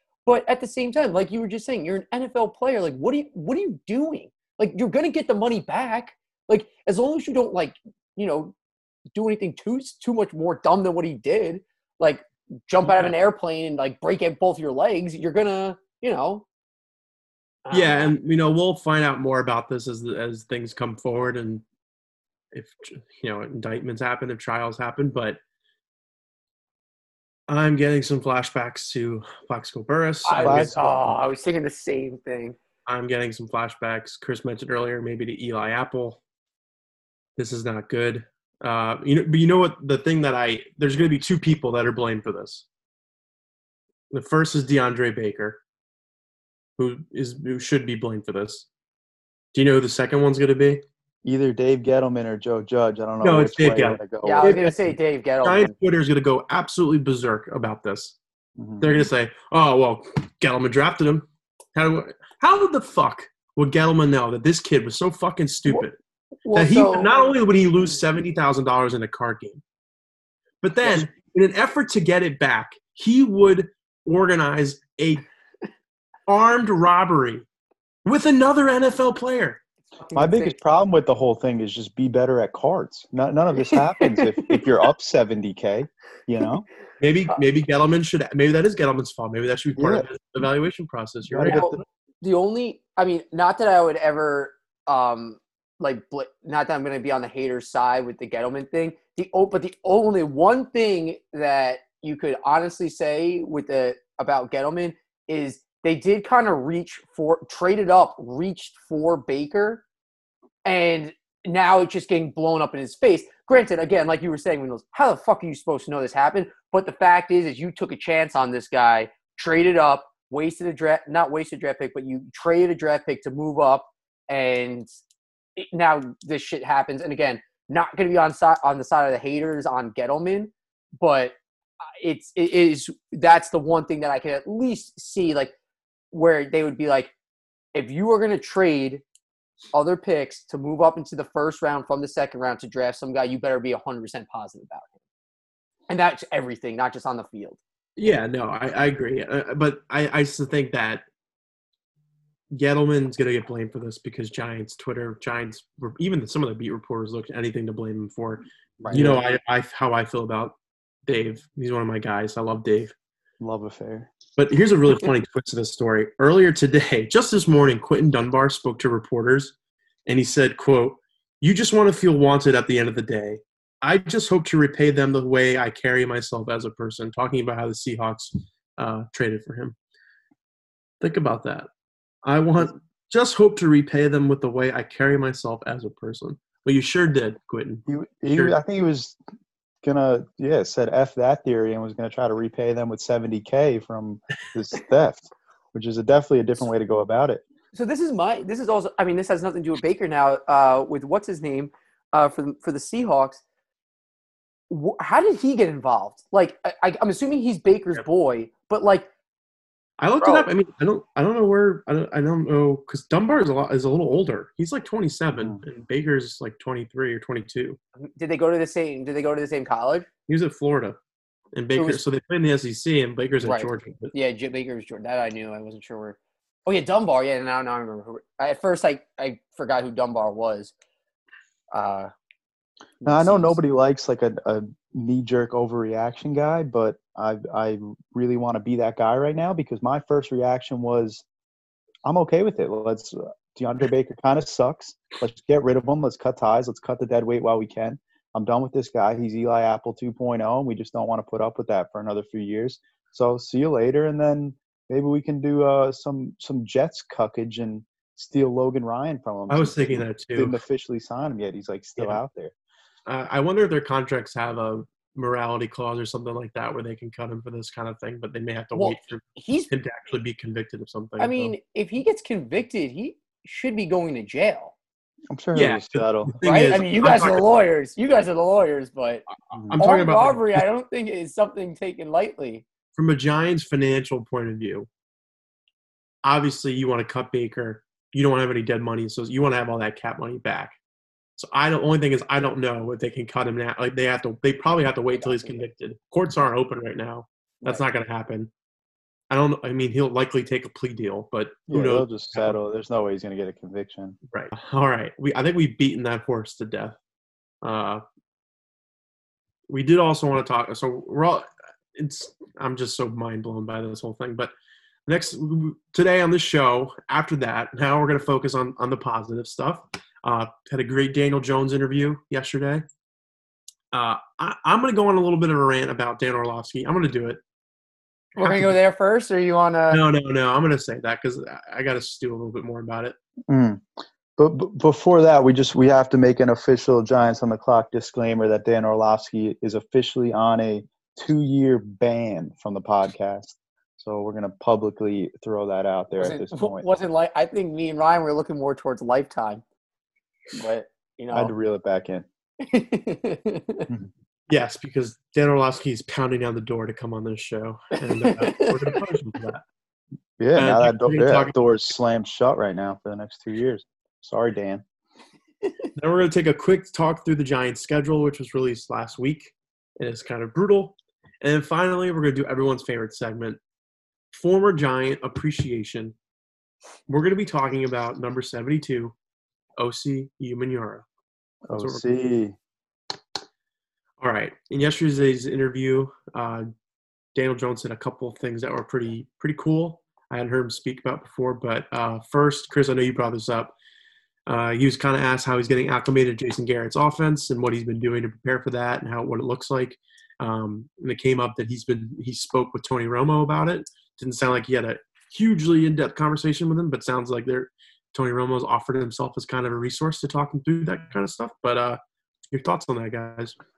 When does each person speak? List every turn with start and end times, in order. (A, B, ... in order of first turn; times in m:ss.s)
0:00.2-0:08.6 A
0:09.2-0:16.5 A
0:12.8-0:13.1 B
0:17.6-0:18.1 A
0:17.7-0:21.6 B
0:22.5-0:25.4 B
0:27.5-0:30.8 B
0:30.2-0:32.6 A
0:30.4-0:31.1 C
0:32.9-0:36.2 B
0:37.4-0:42.7 B
0:44.1-0:45.6 B
0:46.8-0:48.7 B
0:49.5-0:50.8 B
0:51.2-0:54.6 C
0:53.2-0:58.2 B
0:54.2-0:55.7 A
0:58.6-0:59.1 C
0:58.8-1:06.0 B
1:06.4-1:07.2 A
1:06.5-1:09.6 B
1:10.6-1:15.2 B
1:16.3-1:17.4 B
1:18.0-1:19.6 B
1:20.0-1:20.6 A
1:20.2-1:26.7 C
1:23.7-1:24.7 A
1:27.0-1:31.6 B
1:29.8-1:30.1 C
1:31.3-1:31.8 C
1:31.5-1:49.8 A
1:50.6-2:04.9 A
2:05.6-2:11.4 A
2:12.0-2:15.5 A
2:16.1-2:17.1 A
2:17.7-2:19.0 A
2:19.7-2:24.9 A
2:25.9-2:27.6 A
2:28.0-2:31.0 B
2:32.5-2:42.9 B
2:38.8-2:39.2 C
2:43.4-2:44.1 C
2:44.4-2:49.5 B
2:50.1-2:59.8 B
3:01.0-3:01.7 B
3:02.2-3:08.6 B
3:07.9-3:09.2 C
3:09.8-3:17.4 C
3:17.7-3:23.4 A
3:24.7-3:29.1 A
3:30.0-3:37.8 B
3:30.2-3:30.5 A
3:38.0-3:40.1 A
3:40.3-3:41.0 B
3:41.5-3:44.1 B
3:41.8-3:42.0 A
3:43.4-3:50.7 A
3:51.7-3:52.1 A
3:53.0-3:53.6 A
3:53.0-4:01.2 C
4:02.0-4:22.5 C
4:19.5-4:20.6 B
4:23.0-4:31.5 B
4:28.8-4:29.7 A
4:31.2-4:34.7 A
4:35.3-4:36.4 C
4:35.5-4:37.4 B
4:36.4-4:39.2 A
4:39.5-4:40.6 B
4:39.8-4:42.6 A
4:43.0-4:44.9 B
4:46.2-4:50.8 B
4:51.4-4:58.5 B
4:55.2-4:55.6 A
4:59.3-5:02.6 B
5:01.7-5:04.2 C
5:04.3-5:07.0 B
5:07.6-5:08.0 B
5:09.7-5:14.5 B
5:15.0-5:22.8 B
5:23.9-5:27.4 B
5:28.4-5:28.8 B
5:28.4-5:30.0 A
5:29.9-5:33.2 B
5:33.5-5:33.9 C
5:34.4-5:46.9 C
5:46.2-5:49.6 A
5:50.5-5:51.5 A
5:51.3-5:52.2 C
5:52.6-5:53.9 A
5:54.5-5:59.6 B
5:58.0-5:59.0 A
6:00.4-6:04.8 C
6:00.5-6:01.5 B
6:06.0-6:13.6 B
6:14.3-6:16.1 B
6:17.1-6:19.1 B
6:19.8-6:21.0 B
6:21.7-6:22.6 C
6:21.8-6:22.0 B
6:24.2-6:26.7 B
6:27.4-6:33.7 B
6:34.5-6:52.0 B
6:52.5-6:53.6 B